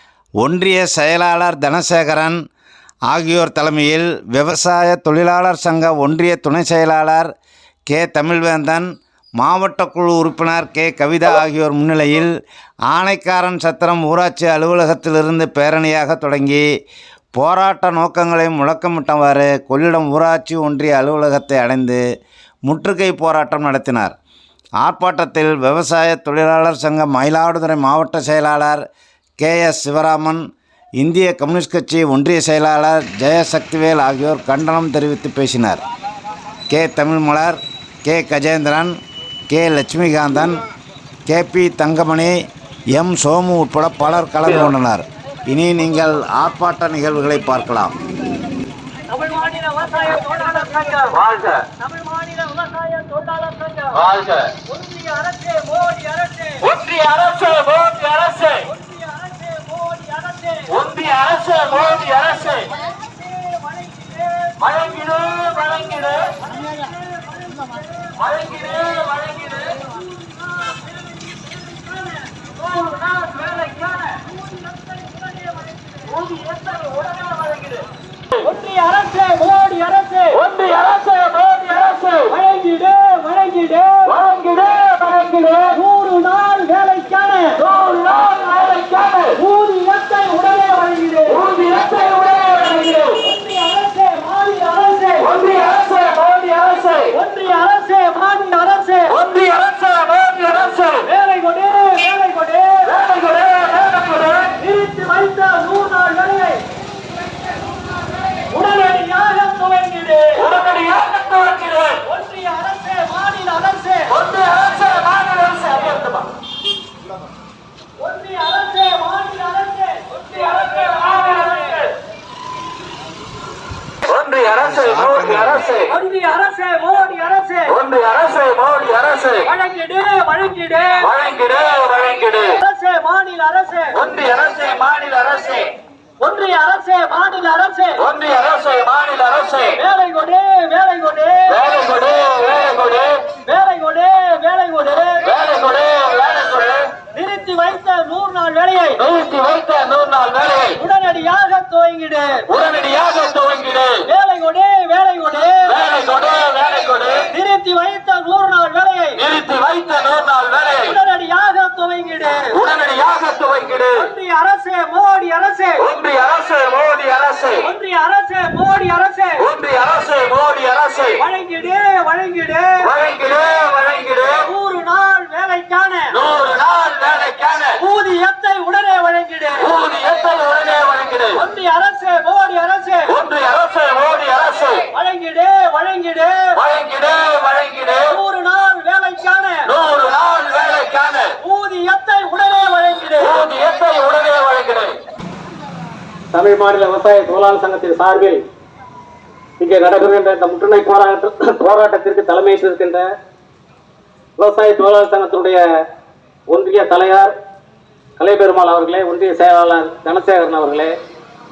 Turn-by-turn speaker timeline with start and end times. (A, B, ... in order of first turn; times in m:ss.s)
0:00.4-0:02.4 A
0:03.1-0:07.3 A
0:07.9-0:08.9 A
0:09.4-0:12.3 A
0:12.9-0:16.6 A
0:17.4-0:22.0 A
0:22.7-0:24.1 A
0:24.8-0:28.8 A
0:29.4-0:30.4 A
0:31.0-0:35.8 A
0:36.7-0:38.9 A
0:39.5-0:40.6 A
0:41.3-0:42.4 A
0:42.9-0:47.9 A
0:49.2-0:51.2 B
0:49.9-0:51.2 C
0:51.2-0:51.6 D
0:51.8-0:56.7 B
0:56.7-0:58.4 D
0:57.7-1:00.8 B
1:00.8-1:02.5 D
1:01.7-1:17.5 B
1:04.8-1:06.0 D
1:08.4-1:09.6 D
1:18.4-1:20.4 B
1:20.4-1:22.2 D
1:22.2-1:24.2 B
1:24.2-1:25.7 D
1:25.7-1:35.4 B
1:28.0-1:29.2 D
1:31.4-1:32.5 D
1:35.3-1:37.1 D
1:37.1-1:39.2 B
1:39.2-1:41.0 D
1:41.0-1:43.0 B
1:43.1-1:44.4 D
1:44.4-1:46.6 B
1:48.3-1:51.4 B
1:50.7-1:52.0 D
1:52.0-1:54.2 B
1:54.3-1:56.0 D
1:58.0-2:02.0 B
2:04.1-2:05.8 D
2:04.7-2:05.6 A
2:05.9-2:07.8 B
2:07.9-2:09.4 D
2:09.4-2:11.1 B
2:11.2-2:12.4 D
2:12.4-2:14.0 B
2:14.1-2:15.6 D
2:16.2-2:18.1 B
2:18.1-2:19.7 D
2:19.8-2:21.7 B
2:21.7-2:23.2 D
2:23.3-2:25.4 B
2:25.4-2:26.8 D
2:27.0-2:29.1 B
2:29.1-2:30.7 D
2:30.7-2:32.6 B
2:32.6-2:34.0 D
2:34.0-2:35.9 B
2:35.9-2:37.2 D
2:37.3-2:39.3 B
2:39.3-2:40.5 D
2:40.6-2:42.6 B
2:42.7-2:43.9 D
2:43.9-2:45.9 B
2:46.0-2:47.6 D
2:47.6-2:49.5 B
2:49.6-2:51.2 D
2:51.2-2:52.9 B
2:53.0-2:54.4 D
2:54.4-2:56.2 B
2:56.3-2:57.7 D
2:57.8-2:59.8 B
2:59.8-3:01.3 D
3:01.3-3:03.2 B
3:03.2-3:04.8 D
3:04.9-3:06.6 B
3:06.8-3:07.7 D
3:08.0-3:09.7 B
3:09.8-3:11.3 D
3:11.4-3:13.4 B
3:13.4-3:14.8 D
3:16.3-3:18.4 C
3:19.6-3:23.0 C
3:24.4-3:25.6 C
3:26.5-3:27.3 C
3:28.2-3:30.9 C